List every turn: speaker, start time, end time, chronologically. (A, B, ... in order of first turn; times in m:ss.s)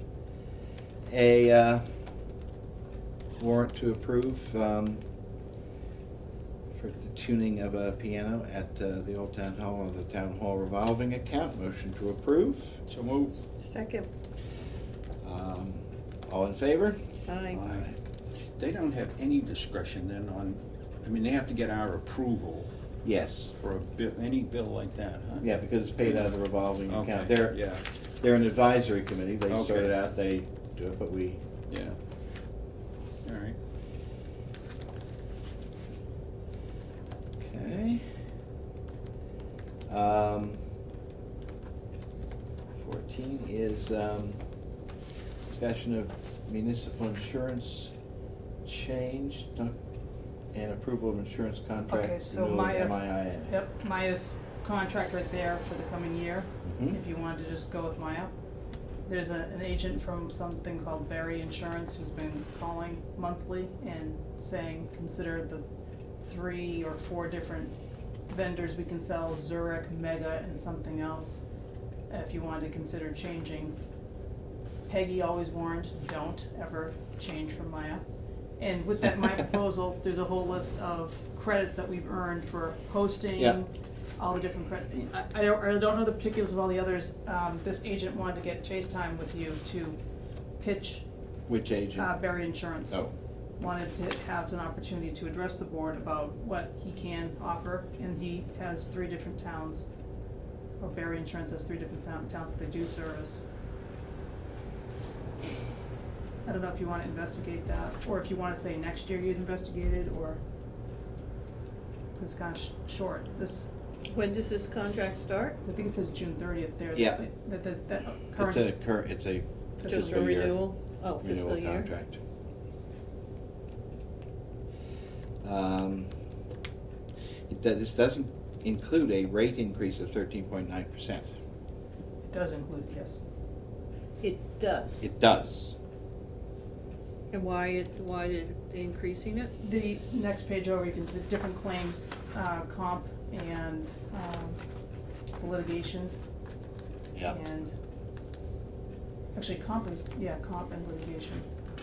0:01.1-0:01.8 A
0:03.4-0:05.0 A
0:06.8-0:12.7 A
0:12.9-0:13.4 B
0:13.6-0:14.1 C
0:15.2-0:17.0 A
0:17.3-0:17.6 C
0:17.5-0:17.9 B
0:17.7-0:18.0 A
0:18.6-0:22.7 B
0:23.0-0:23.5 A
0:23.6-0:25.5 B
0:25.4-0:27.7 A
0:26.9-0:27.8 B
0:28.2-0:31.4 A
0:29.5-0:29.9 B
0:31.7-0:32.0 B
0:33.2-0:33.6 B
0:37.4-0:38.0 A
0:39.9-0:40.6 A
0:42.8-0:44.4 A
0:45.5-0:47.9 A
0:48.6-0:49.8 A
0:50.5-0:53.5 A
0:51.9-0:58.3 D
0:56.6-0:57.0 A
0:59.1-1:05.7 D
1:06.2-1:07.7 D
1:08.3-1:11.4 D
1:12.1-1:13.8 D
1:14.9-1:18.0 D
1:18.6-1:30.0 D
1:30.6-1:31.0 D
1:31.5-1:32.1 A
1:32.0-1:33.0 D
1:33.6-1:39.9 D
1:40.8-1:43.4 D
1:46.4-1:50.4 D
1:52.2-1:53.7 D
1:54.1-1:55.6 C
1:55.6-1:58.7 D
1:57.0-1:57.2 A
1:58.4-2:00.6 A
1:59.8-2:00.3 D
1:59.9-2:01.9 C
2:01.2-2:02.2 A
2:05.4-2:06.1 A
2:07.5-2:11.3 A
2:12.3-2:13.2 D
2:14.2-2:15.1 C
2:15.0-2:15.8 A
2:17.3-2:19.5 C
2:19.6-2:24.6 D
2:25.4-2:26.2 D
2:27.3-2:27.7 D
2:29.4-2:31.5 D